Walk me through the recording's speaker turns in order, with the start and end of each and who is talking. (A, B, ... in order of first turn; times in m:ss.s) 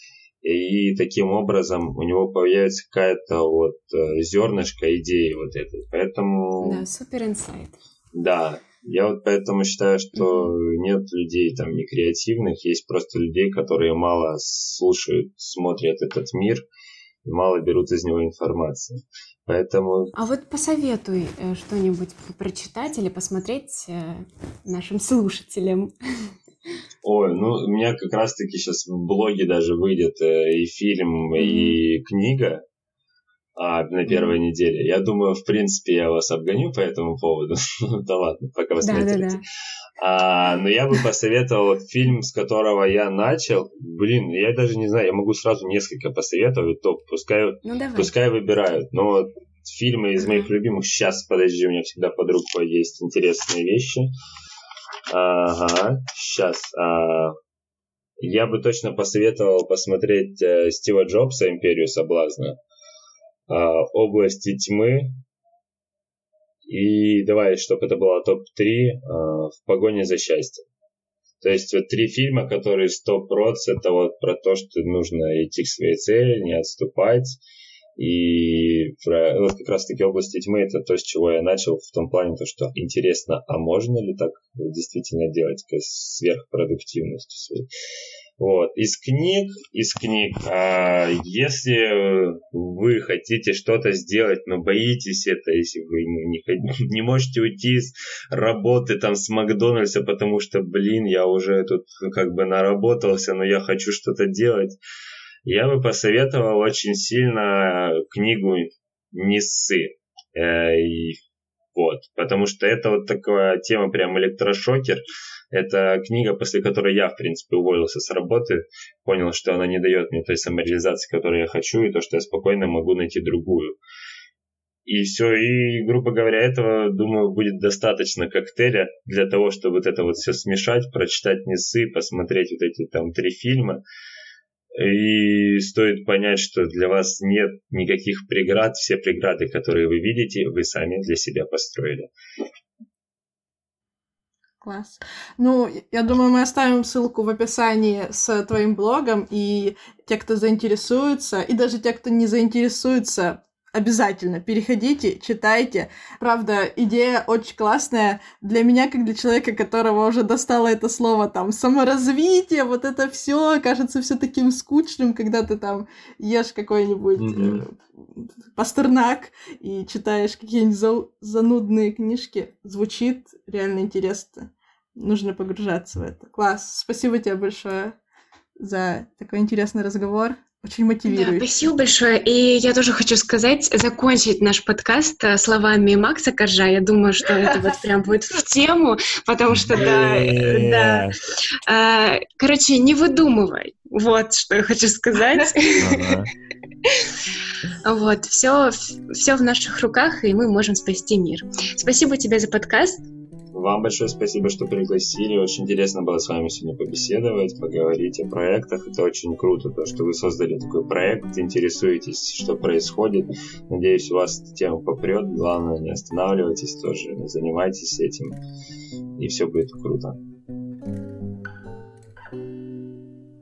0:00.4-0:06.8 A
0:06.6-0:07.8 B
0:08.2-0:16.6 A
0:10.2-0:10.5 B
0:17.2-0:20.1 A
0:20.2-0:26.4 B
0:27.0-0:32.6 A
0:31.4-0:31.8 B
0:33.6-0:39.4 A
0:34.1-0:34.4 B
0:38.8-0:39.4 B
0:40.0-0:54.1 A
0:47.6-0:48.1 B
0:55.1-0:57.4 A
0:58.2-1:02.6 A
1:03.5-1:05.2 A
1:06.7-1:10.6 A
1:11.4-1:17.4 A
1:18.0-1:27.7 A
1:28.4-1:44.8 A
1:45.4-1:51.2 A
1:51.8-2:03.8 A
2:04.9-2:13.8 A
2:14.8-2:22.1 A
2:24.6-2:58.0 C
2:47.2-2:47.6 A
2:58.6-3:01.5 C
3:01.1-3:11.1 B
3:09.6-3:11.2 A
3:11.7-3:16.2 B
3:15.8-3:16.3 A
3:16.9-3:17.1 B
3:17.8-3:23.1 B
3:23.5-3:38.4 A
3:39.2-3:40.2 A